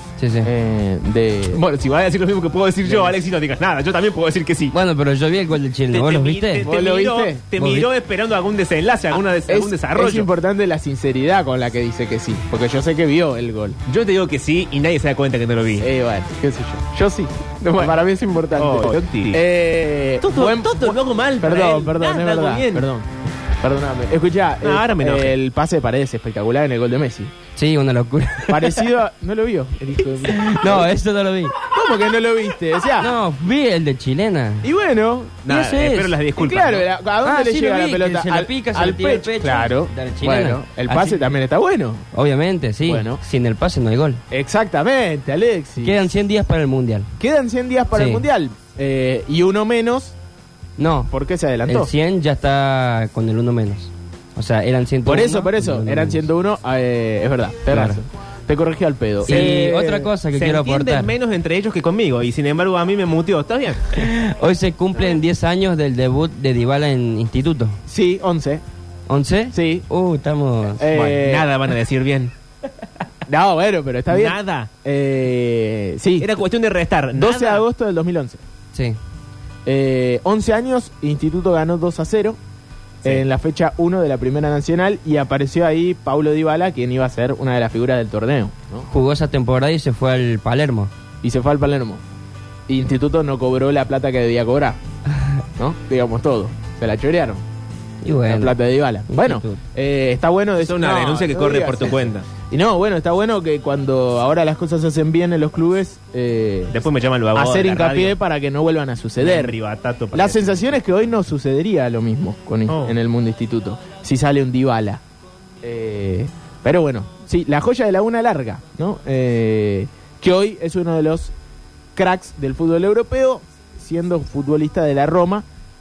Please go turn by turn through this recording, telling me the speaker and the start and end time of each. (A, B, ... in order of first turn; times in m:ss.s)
0:00.2-0:00.5 A
0:00.4-0:01.6 B
0:01.5-0:04.8 C
0:02.8-0:03.2 B
0:04.7-0:06.6 A
0:05.9-0:10.3 C
0:06.6-0:07.4 B
0:07.6-0:07.9 A
0:09.4-0:13.8 B
0:13.9-0:15.9 C
0:15.8-0:27.3 B
0:18.5-0:19.4 C
0:20.2-0:22.9 C
0:24.6-0:25.4 C
0:27.6-0:28.8 A
0:28.5-0:30.9 B
0:30.2-0:31.6 A
0:31.7-0:33.1 B
0:33.0-0:34.7 A
0:34.6-0:35.5 B
0:35.4-0:36.1 A
0:35.4-0:36.9 C
0:36.4-0:42.1 B
0:37.2-0:41.2 A
0:42.1-0:44.2 A
0:42.9-0:43.2 B
0:44.3-0:46.0 B
0:45.8-0:47.1 A
0:47.2-0:50.2 B
0:47.9-0:48.3 A
0:50.8-0:51.1 A
0:51.1-0:51.9 B
0:51.6-0:56.3 A
0:55.0-1:00.1 B
0:57.7-0:58.0 A
0:59.3-0:59.6 C
0:59.3-1:01.1 A
1:00.3-1:03.9 C
1:03.9-1:07.8 A
1:07.9-1:08.6 B
1:09.1-1:10.9 A
1:09.5-1:09.9 B
1:10.8-1:11.5 B
1:10.9-1:12.3 C
1:13.3-1:16.3 B
1:14.1-1:14.7 C
1:16.2-1:17.6 C
1:17.1-1:18.4 B
1:19.6-1:22.4 B
1:23.0-1:28.9 B
1:28.9-1:30.9 A
1:31.2-1:32.0 B
1:32.7-1:34.8 B
1:35.6-1:37.4 B
1:38.0-1:39.6 A
1:38.2-1:46.8 B
1:40.6-1:42.2 C
1:46.7-1:48.2 C
1:47.3-1:49.6 B
1:49.2-1:50.8 C
1:50.1-1:55.0 B
1:52.7-1:53.0 C
1:55.6-2:01.3 B
2:02.0-2:05.4 B